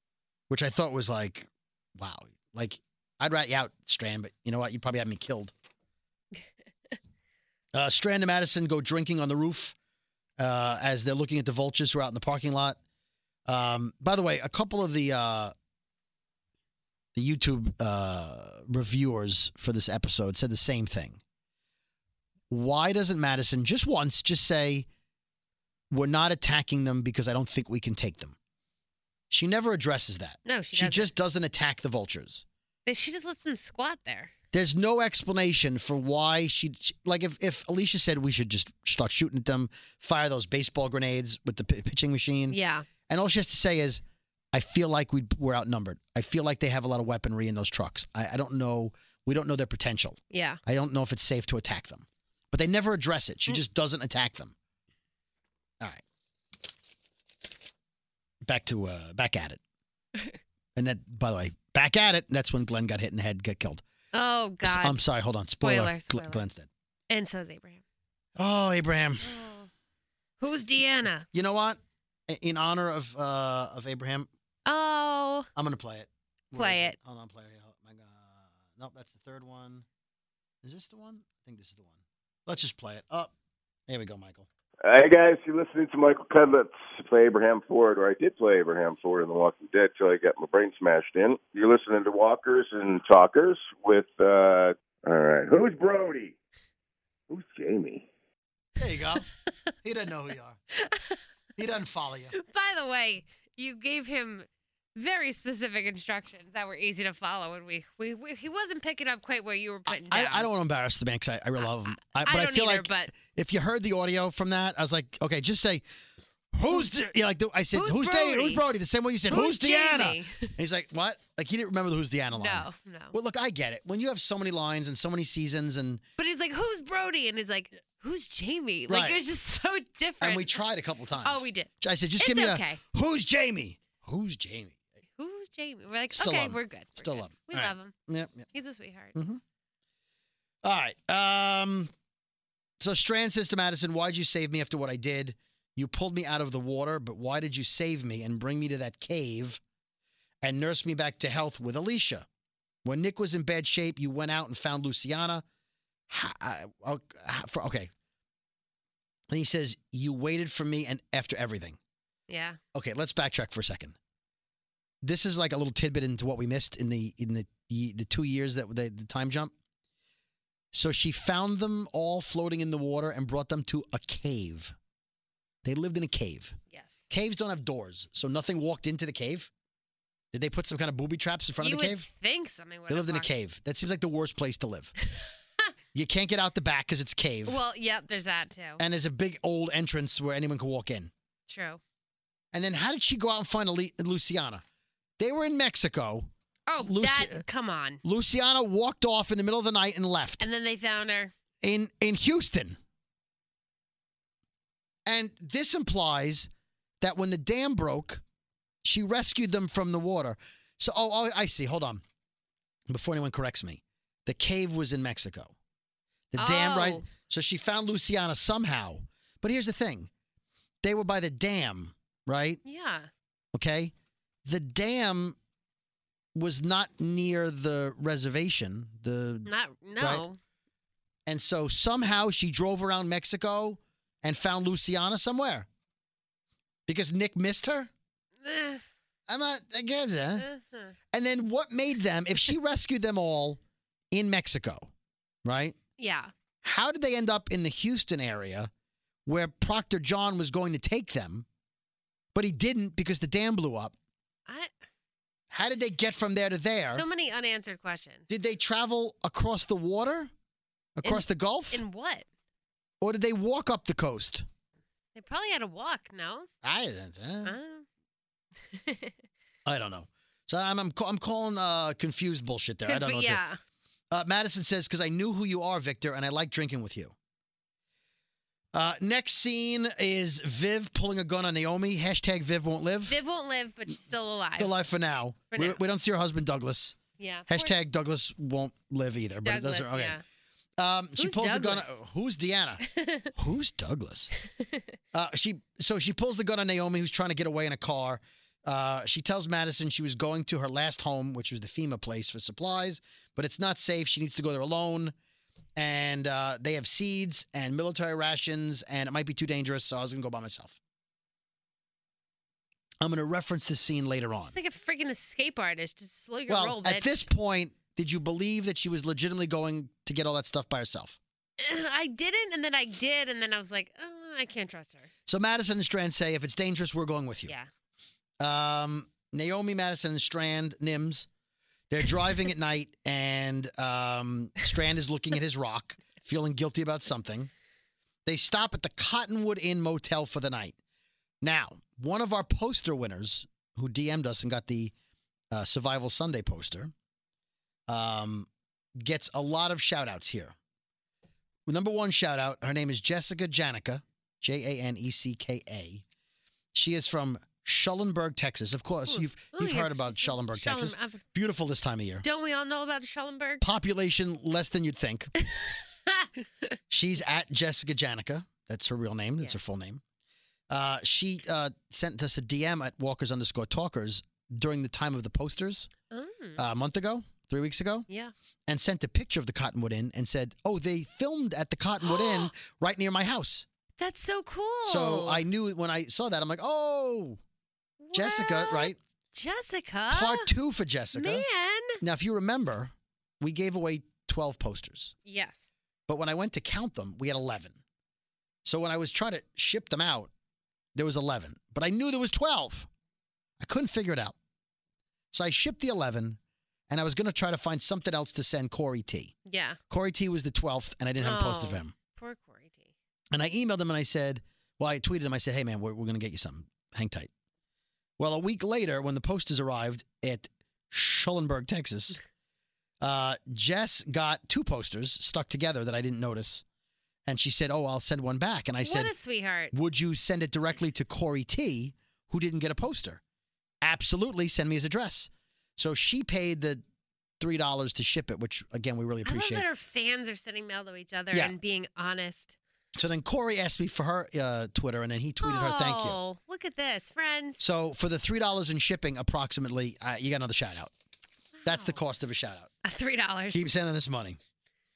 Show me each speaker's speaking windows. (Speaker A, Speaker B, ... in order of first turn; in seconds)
Speaker A: 0.5-5.5, 7.7-9.8, 10.4-12.8, 13.5-15.5, 17.1-21.2, 22.5-24.9, 25.9-28.4, 29.3-32.5, 34.5-42.6, 43.1-44.0, 44.5-54.5, 58.5-59.6, 60.8-63.8, 64.6-66.7, 68.4-69.3, 71.3-74.3, 75.6-79.9, 80.6-83.3, 83.9-84.5, 98.8-99.3, 99.8-100.6, 101.6-102.3, 109.9-115.8, 116.5-126.0, 128.9-129.2, 130.2-134.8, 136.1-138.5, 139.2-139.4, 140.6-141.9, 142.8-149.6, 150.4-152.3, 152.8-155.4, 156.1-157.9, 159.3-161.8, 162.7-164.0, 165.0-169.5, 170.7-174.8, 175.6-176.6, 177.1-179.5, 180.3-182.1, 182.9-184.9, 185.9-187.6, 188.8-191.1, 192.5-194.6, 195.2-196.3, 196.8-197.4, 198.0-200.4, 201.6-202.8, 205.1-206.5, 207.0-208.2, 208.8-212.0, 212.9-215.5, 216.3-220.1, 220.8-222.6, 223.5-223.9, 224.4-225.4, 226.3-230.2, 231.3-235.7, 236.9-237.9, 239.3-240.5, 241.1-243.6, 244.1-244.9, 245.4-245.8, 246.6-248.7, 249.3-251.5, 252.3-253.9, 255.5-257.1, 258.3-260.3, 261.0-261.8, 263.0-264.4, 266.6-267.6, 269.6-273.4, 274.1-277.1, 278.7-283.2, 284.6-290.2, 290.8-292.8, 293.4-294.3, 295.1-305.1, 305.8-310.8, 313.0-314.6, 316.5-321.2, 325.3-327.5, 328.4-331.3, 331.9-337.5, 338.3-340.8, 341.4-344.9, 345.5-346.9, 347.9-348.5, 349.0-350.6, 351.7-356.0, 356.7-362.2, 363.6-365.3, 366.9-370.0, 370.7-375.9, 376.6-378.1, 378.7-383.7, 384.9-387.4, 388.1-389.0, 390.1-391.4, 392.0-395.1, 396.1-397.8, 398.6-400.3, 400.9-402.9, 403.6-404.4, 405.3-409.4, 409.9-411.9, 413.3-417.3, 418.2-422.2, 423.0-426.6, 427.3-429.1, 429.7-433.2, 433.8-436.8, 437.4-439.7, 442.9-446.2, 447.6-450.9, 451.6-452.7, 453.5-454.4
Speaker B: 30.4-31.1, 32.9-34.3, 42.5-42.9, 50.3-50.6, 64.1-65.0, 65.6-66.4, 67.1-67.8, 69.2-69.7, 70.4-71.3, 74.7-75.5, 76.5-77.0, 100.8-101.2, 102.3-110.5, 112.0-113.1, 117.7-118.6, 119.3-120.5, 122.3-123.2, 126.2-130.6, 131.2-132.8, 135.2-137.9, 138.5-139.2, 162.3-162.6, 176.7-177.0, 181.6-183.3, 187.5-188.8, 191.5-191.8, 196.7-198.0, 200.4-201.3, 216.4-217.1, 222.6-223.1, 229.5-230.4, 238.4-238.8, 240.4-240.9, 246.0-246.3, 256.9-258.3, 261.1-262.3, 265.1-266.5, 267.4-267.9, 268.7-269.1, 272.9-273.6, 283.1-284.7, 285.5-285.8, 287.2-287.7, 289.4-290.2, 291.2-291.9, 292.8-293.3, 294.6-294.9, 314.4-317.2, 321.6-325.1, 359.1-361.2, 362.2-363.6, 365.5-366.3, 376.1-376.6, 382.0-382.5, 384.0-385.4, 388.0-390.5, 391.1-392.0, 395.3-395.7, 409.5-409.8, 411.2-412.9, 428.8-429.7, 439.2-442.6, 445.4-447.6, 451.6-452.0, 452.8-453.7
Speaker C: 84.8-96.4, 97.3-98.1